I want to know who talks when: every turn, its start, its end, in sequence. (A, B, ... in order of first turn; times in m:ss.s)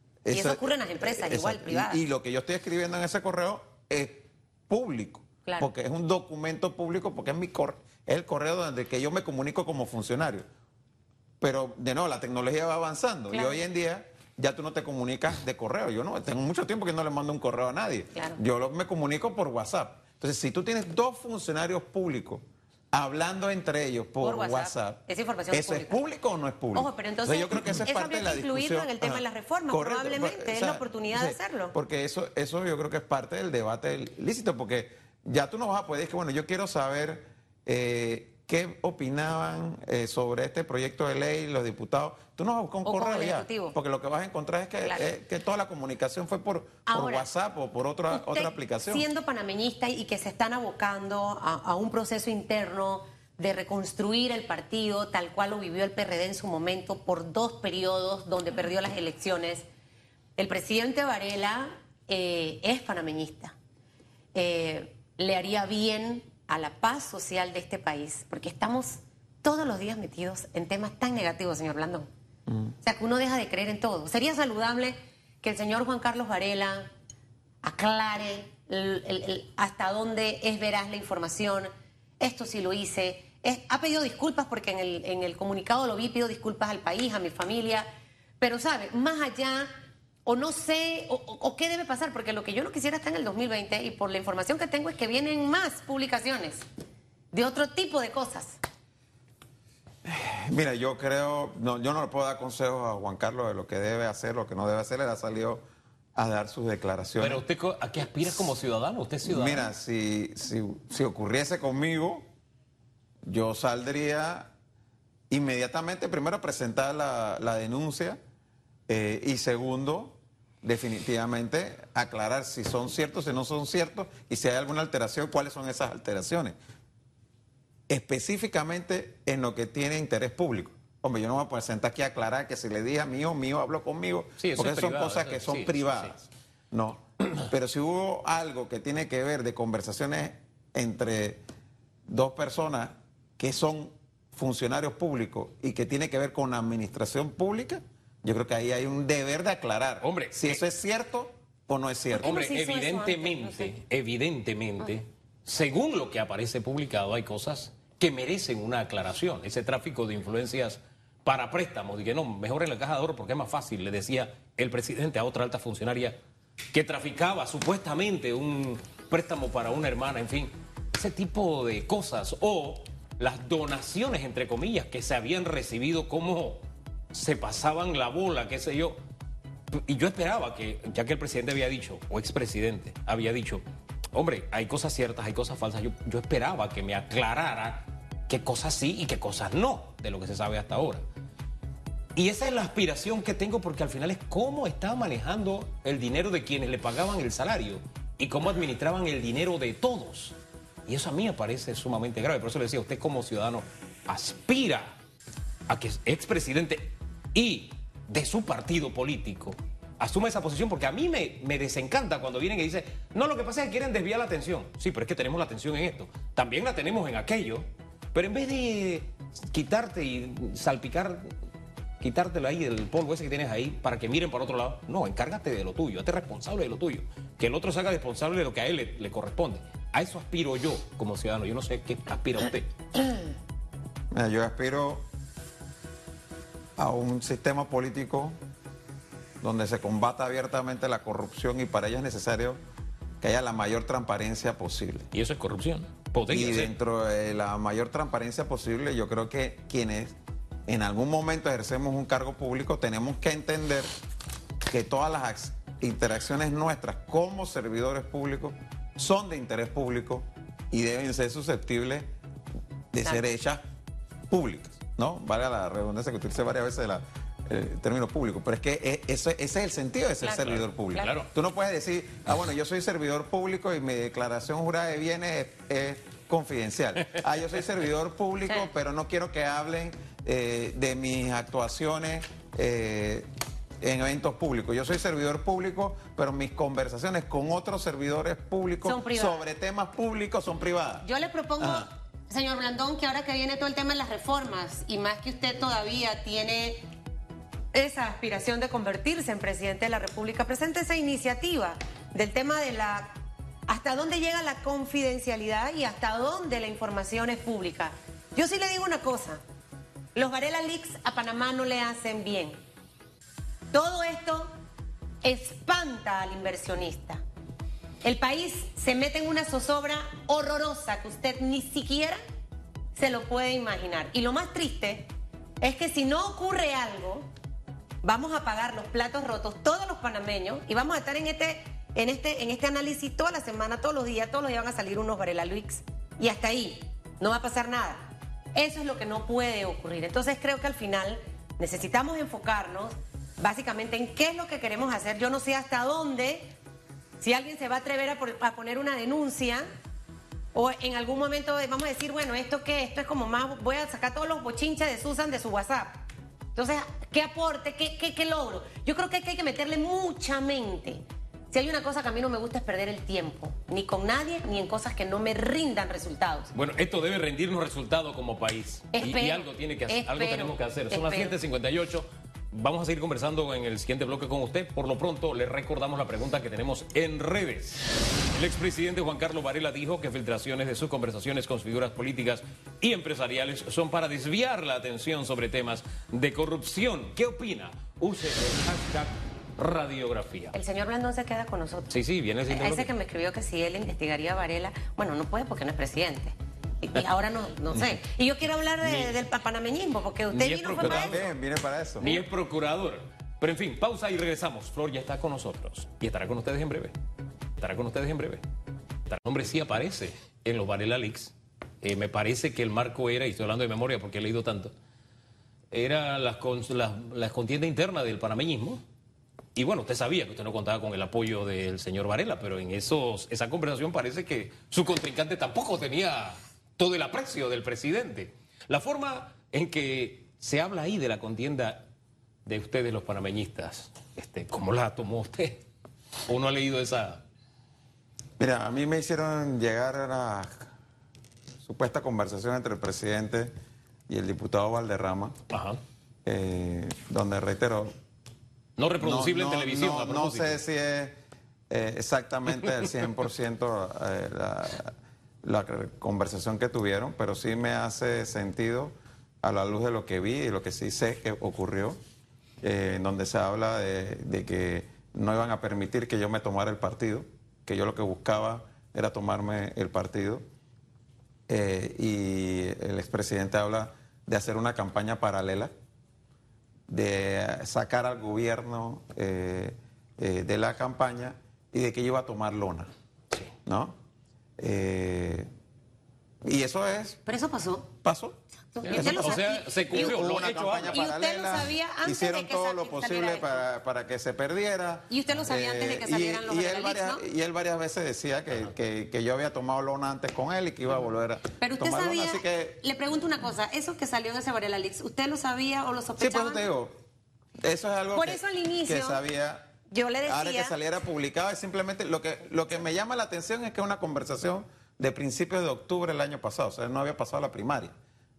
0:00.2-0:10.4 A
0:00.3-0:02.0 B
0:11.4-0:49.0 A
0:13.3-0:13.6 B
0:24.2-0:26.0 B
0:26.7-0:31.7 B
0:42.8-0:43.7 B
0:44.8-0:45.1 B
0:46.9-0:47.3 B
0:48.1-0:59.6 B
1:00.4-1:03.5 B
1:04.3-1:12.1 B
1:12.8-1:16.9 B
1:17.6-1:27.9 B
1:28.4-1:29.7 B
1:30.2-1:36.6 B
1:37.3-1:38.6 B
1:40.0-1:45.6 A
1:46.2-1:47.4 A
1:47.2-1:49.7 C
1:49.2-1:52.2 A
1:53.2-1:54.5 A
1:55.3-1:58.2 A
1:58.9-2:06.6 A
2:07.9-2:21.4 A
2:14.4-2:16.2 C
2:22.1-2:32.4 A
2:30.0-2:30.6 C
2:32.1-2:33.7 B
2:32.2-2:46.2 C
2:46.7-2:59.0 C
2:59.7-3:03.6 C
3:04.1-3:11.0 C
3:12.1-3:25.0 C
3:25.7-3:41.3 C
3:42.0-3:52.7 C
3:54.1-3:55.0 A
3:56.8-3:58.4 A
3:59.4-4:02.6 A
4:03.2-4:05.1 A
4:05.1-4:06.7 C
4:06.3-4:10.1 A
4:10.7-4:13.9 A
4:14.7-4:22.1 A
4:22.9-4:23.6 A
4:24.3-4:43.3 A
4:30.2-4:30.5 B
4:30.9-4:31.3 C
4:43.8-4:51.0 A
4:48.8-4:49.4 B
4:51.0-4:56.8 B
4:51.6-4:51.9 A
4:57.7-5:03.2 B
5:03.7-5:09.4 B
5:10.1-5:12.6 B
5:13.7-5:14.5 B
5:15.2-5:17.2 B
5:18.0-5:22.2 B
5:22.9-5:25.1 B
5:25.6-5:27.2 B
5:28.0-5:46.5 B
5:47.2-5:49.6 B
5:50.5-6:06.5 B
6:06.5-6:30.6 C
6:08.9-6:11.3 B
6:30.5-6:41.3 B
6:31.9-6:32.9 C
6:38.8-6:39.1 C
6:40.3-6:41.3 C
6:40.8-6:42.1 A
6:42.0-6:46.9 C
6:47.6-6:48.4 C
6:49.1-6:54.7 C
6:55.7-6:58.8 C
6:59.5-7:11.8 C
7:12.4-7:15.6 C
7:16.2-7:17.2 C
7:18.4-7:20.7 A
7:21.6-7:23.5 A
7:24.1-7:25.4 A
7:25.5-7:25.8 C
7:26.2-7:27.9 A
7:28.8-7:30.6 C
7:29.0-7:31.2 A
7:31.7-7:42.0 A
7:42.6-7:50.4 A
7:51.5-7:55.7 A
7:56.9-8:02.9 A
8:03.6-8:04.0 A
8:04.6-8:05.5 A
8:06.4-8:07.2 A
8:07.2-8:07.9 B
8:08.0-8:22.8 A
8:08.7-8:13.6 B
8:08.8-8:11.0 C
8:15.1-8:17.2 B
8:21.6-8:26.6 B
8:26.2-8:27.0 A
8:27.6-8:29.7 A
8:28.1-8:29.2 B
8:29.9-8:30.8 B
8:30.2-8:37.9 A